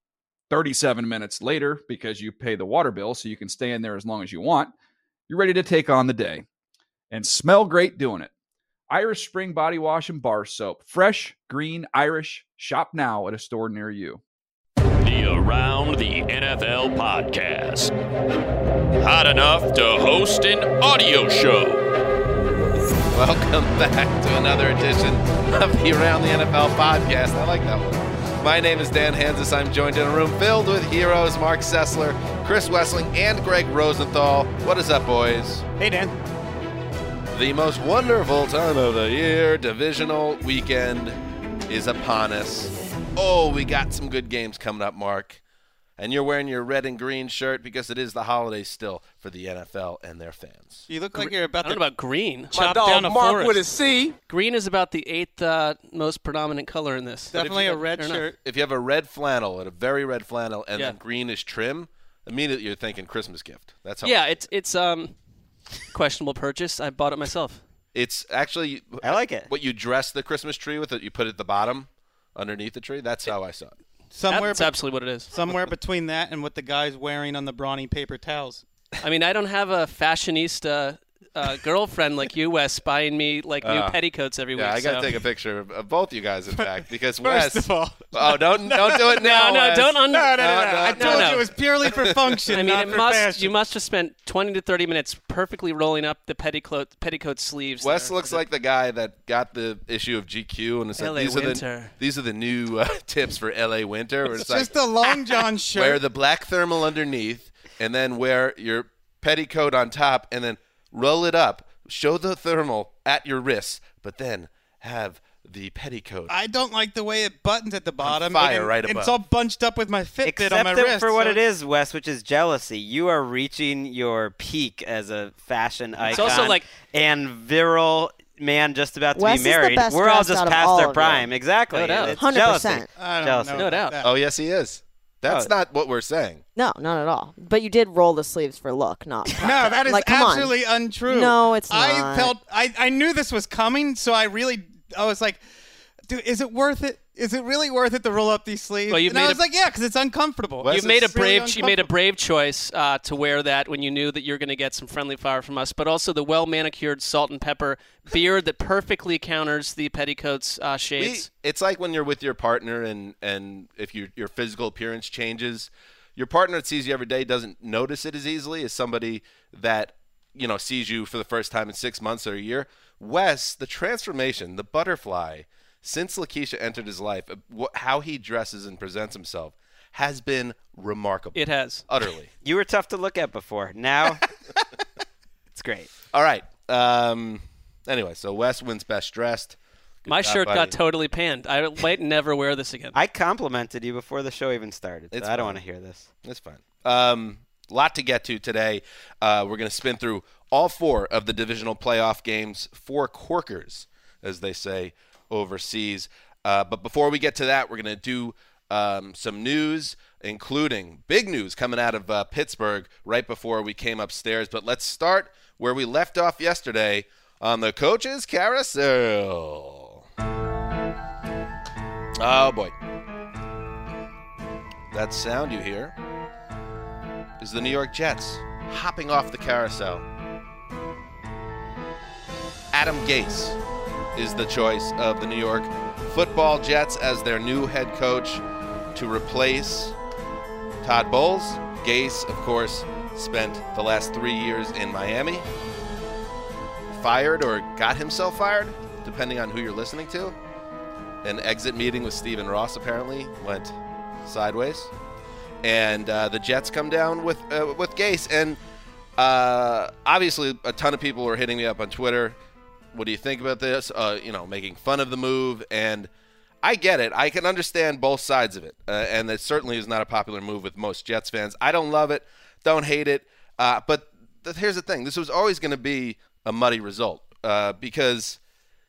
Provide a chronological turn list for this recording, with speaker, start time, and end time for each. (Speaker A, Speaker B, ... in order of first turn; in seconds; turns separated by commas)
Speaker A: 0.5-4.7, Speaker A: 5.3-6.5, Speaker A: 7.1-8.3, Speaker A: 8.9-14.2, Speaker B: 15.0-17.9, Speaker B: 19.0-21.8, Speaker C: 23.1-35.6, Speaker D: 35.8-36.1, Speaker C: 37.3-41.2, Speaker C: 41.7-45.4, Speaker C: 46.0-50.9, Speaker D: 50.9-51.8, Speaker E: 51.1-52.7, Speaker B: 52.5-54.1, Speaker D: 52.6-53.6, Speaker E: 54.3-58.2, Speaker D: 57.3-58.4, Speaker C: 58.4-64.2, Speaker E: 64.0-65.1, Speaker E: 65.8-67.6, Speaker C: 67.9-73.8, Speaker F: 69.0-69.5, Speaker D: 74.1-78.6, Speaker E: 74.3-75.3, Speaker E: 79.0-85.1, Speaker C: 83.6-84.0, Speaker C: 84.5-92.7, Speaker D: 87.2-89.2, Speaker E: 89.1-90.4, Speaker D: 90.1-93.5, Speaker E: 91.0-91.5, Speaker E: 92.5-98.4, Speaker C: 97.8-104.7, Speaker E: 101.0-101.9, Speaker D: 104.4-106.0, Speaker C: 105.7-116.3, Speaker D: 116.3-121.4, Speaker C: 118.0-119.1, Speaker F: 120.2-133.7, Speaker E: 126.1-126.7, Speaker G: 129.1-131.2, Speaker E: 131.7-132.2, Speaker G: 132.1-132.9, Speaker D: 132.9-134.1, Speaker E: 133.5-134.0, Speaker C: 134.0-136.4, Speaker F: 135.2-135.5, Speaker G: 136.5-142.3, Speaker D: 139.4-145.4, Speaker D: 146.1-151.9, Speaker E: 148.9-149.4, Speaker C: 150.6-151.1, Speaker E: 150.7-161.3, Speaker C: 161.0-182.3, Speaker E: 181.3-181.8, Speaker F: 182.4-184.2, Speaker F: 185.5-185.9, Speaker C: 186.1-190.8, Speaker E: 190.1-192.9, Speaker F: 192.9-196.1, Speaker C: 195.1-195.6, Speaker C: 196.2-220.0, Speaker C: 222.2-222.7, Speaker C: 224.9-225.9, Speaker C: 227.4-230.1, Speaker C: 232.7-233.6, Speaker C: 234.2-238.4, Speaker C: 238.9-239.9, Speaker C: 240.8-245.5, Speaker C: 246.9-250.3, Speaker C: 251.2-254.9, Speaker C: 255.6-258.6, Speaker C: 259.2-262.4, Speaker C: 262.9-266.1, Speaker C: 266.6-278.4